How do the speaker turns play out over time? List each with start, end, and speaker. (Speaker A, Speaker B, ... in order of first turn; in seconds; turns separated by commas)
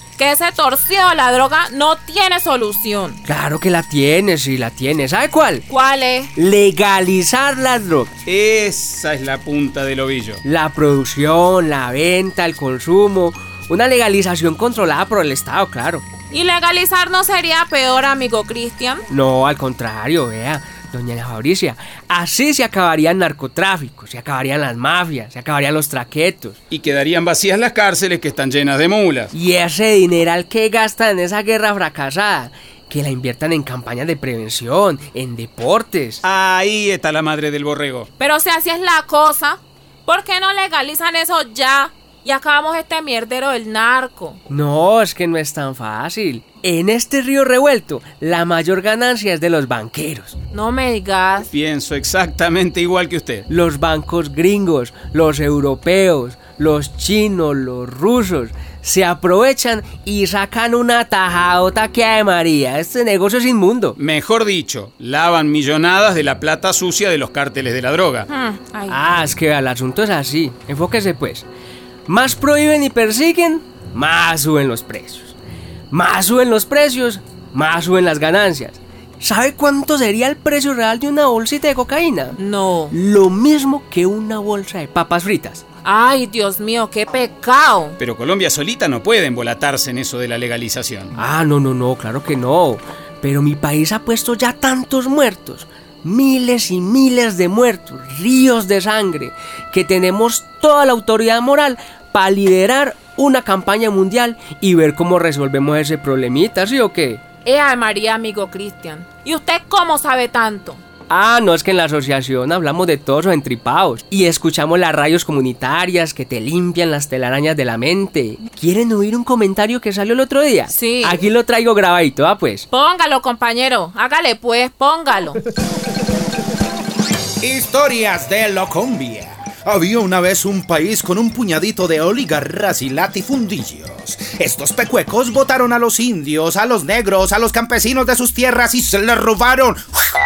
Speaker A: 0.2-3.2, Speaker B: 3.2-5.7, Speaker A: 5.7-6.3, Speaker B: 6.3-8.1, Speaker C: 8.3-10.4, Speaker B: 10.4-16.1, Speaker A: 16.3-19.1, Speaker B: 19.1-26.6, Speaker C: 26.7-29.3, Speaker B: 29.3-36.2, Speaker C: 36.2-38.1, Speaker A: 38.2-44.4, Speaker B: 44.5-50.4, Speaker A: 50.5-51.5, Speaker C: 51.5-53.5, Speaker B: 53.5-64.0, Speaker C: 64.0-68.3, Speaker A: 68.3-69.1, Speaker B: 68.9-71.5, Speaker B: 72.1-75.3, Speaker B: 75.9-82.4, Speaker A: 82.4-83.0, Speaker B: 82.9-85.6, Speaker A: 85.8-88.0, Speaker C: 88.0-91.2, Speaker B: 91.2-107.2, Speaker A: 107.5-110.8, Speaker B: 111.1-122.7, Speaker A: 120.7-121.2, Speaker A: 122.7-125.4, Speaker D: 127.4-140.0